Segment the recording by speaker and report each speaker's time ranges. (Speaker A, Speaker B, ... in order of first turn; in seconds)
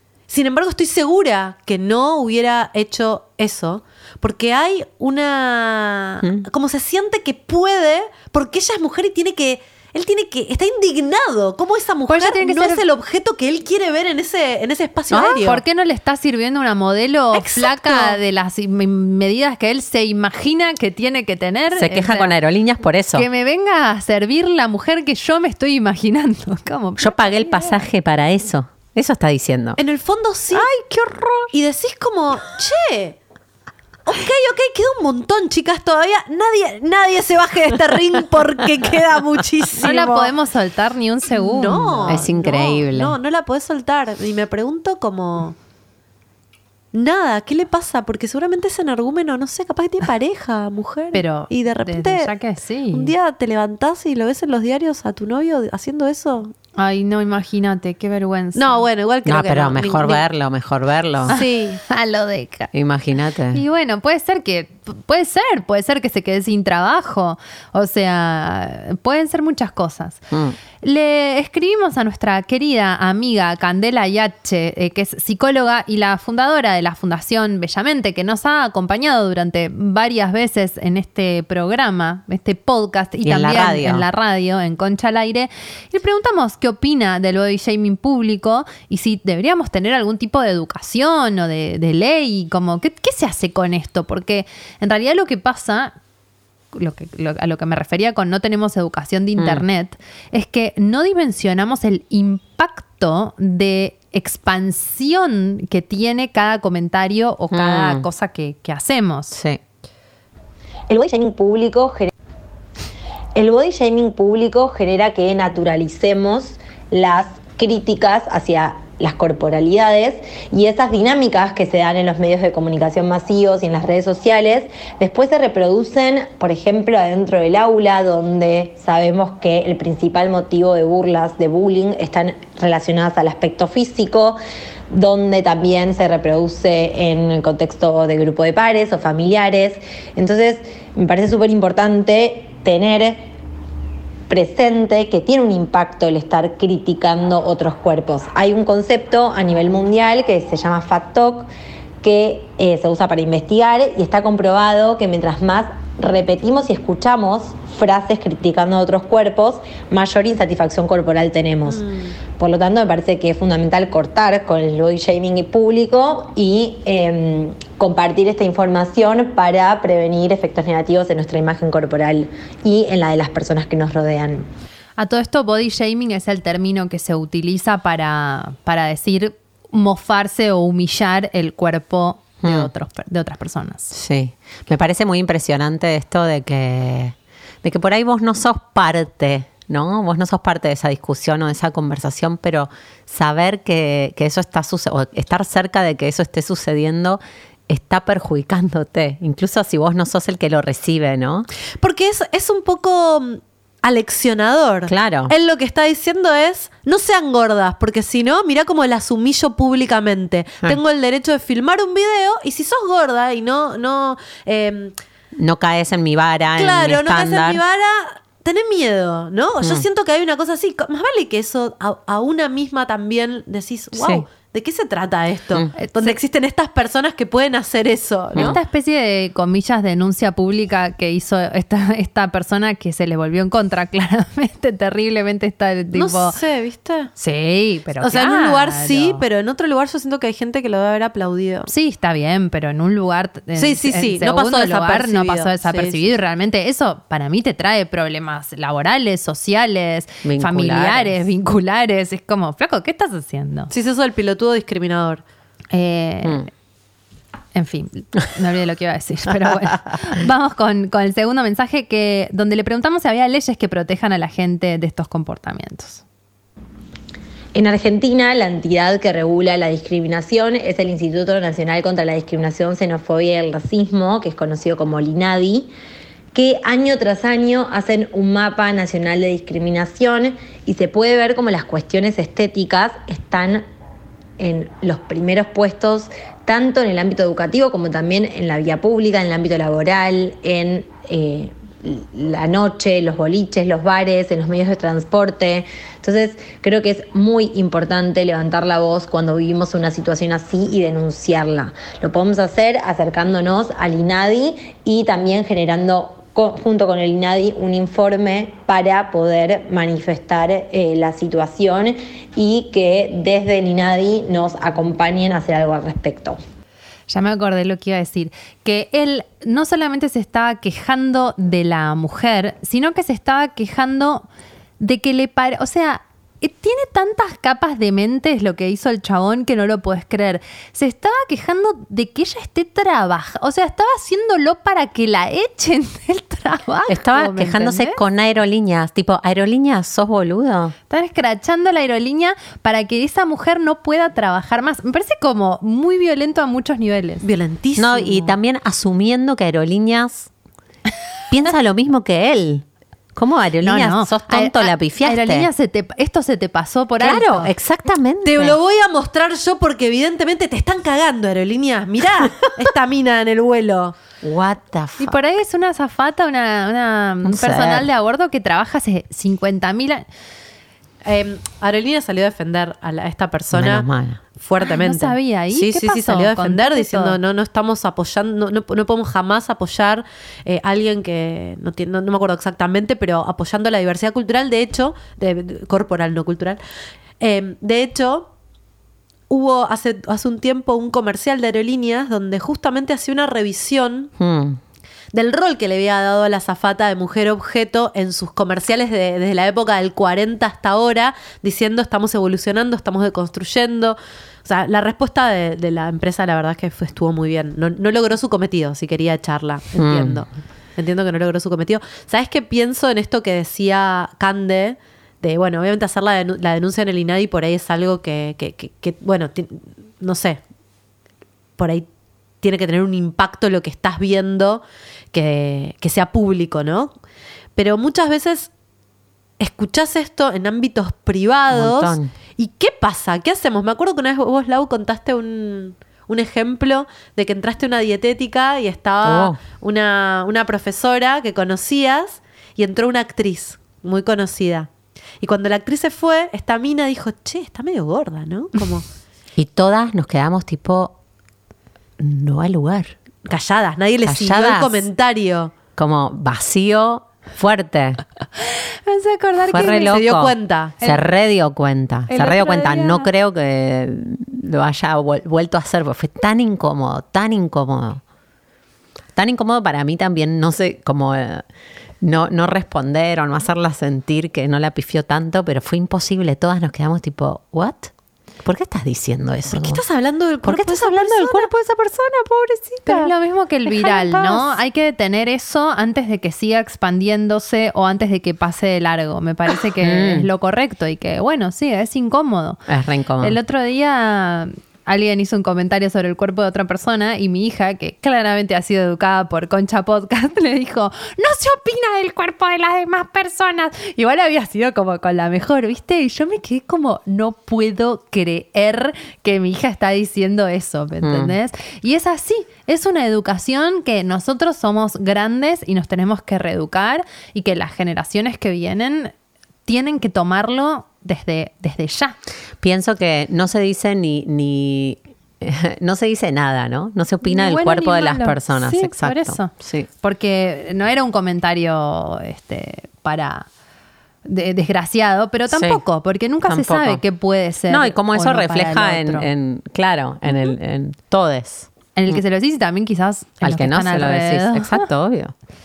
Speaker A: 0.3-15.6, 17.3-18.2, 29.8-30.7, 31.5-33.2, 34.1-40.3, 41.3-45.6, 46.9-52.3, 52.9-56.5, 58.6-60.2, 61.3-61.8, 161.7-162.1, 201.8-214.9, 216.6-228.6, 235.9-237.1, 238.0-241.7, 243.6-246.1, 253.7-255.2, 347.2-348.3, 358.2-364.0, 371.0-386.6, 387.2-388.3, 389.3-394.1, 395.1-420.4, 421.6-421.9, 422.4-426.9, 427.6-428.5, 429.4-444.7, 445.2-448.9, 453.3-455.5, 459.6-460.8, 479.5-481.5
Speaker B: 12.1-12.9, 15.1-22.4, 23.1-27.8, 39.8-42.3, 51.1-53.1, 56.8-58.9, 61.3-62.7, 63.5-70.2, 70.8-95.9, 96.7-109.4, 175.0-183.9, 225.8-226.2, 228.4-236.4, 237.2-239.2, 241.7-253.7, 255.7-256.5, 257.6-266.0, 317.1-324.3, 324.8-338.0, 340.9-347.2, 353.6-357.5, 365.0-370.1, 374.6-377.2, 458.4-459.9, 462.1-463.1, 482.9-492.6, 493.2-519.1, 519.7-522.2, 527.2-533.5, 534.2-539.3, 542.0-544.9
Speaker C: 21.8-23.3, 27.0-29.8, 30.5-31.5, 42.1-43.1, 59.2-61.4, 62.7-63.6, 70.3-70.6, 83.2-84.0, 99.4-99.6, 107.5-108.1, 109.3-109.6, 182.4-182.7, 183.9-201.5, 204.9-205.3, 215.4-217.6, 219.6-219.9, 223.9-224.2, 250.2-251.2, 336.9-340.7, 347.8-350.3, 351.3-352.6, 353.2-355.5, 357.0-358.6, 364.2-365.1, 367.2-367.9, 373.5-374.2, 394.2-394.6, 409.8-410.2, 431.5-432.1, 439.0-439.4, 449.4-450.9, 452.0-452.9, 454.1-454.9, 455.8-458.0, 459.5-468.0, 469.1-471.4, 472.0-477.9, 478.4-479.8, 480.4-483.1, 483.9-484.4, 489.8-490.3, 492.7-493.4, 511.0-511.3, 522.6-529.9, 535.5-535.8, 536.4-537.0, 537.7-542.2, 543.4-545.3
Speaker D: 110.9-112.1, 113.4-134.4, 134.9-143.2, 144.3-151.5, 152.0-161.8, 162.4-174.5, 267.6-275.7, 276.3-283.6, 284.4-316.4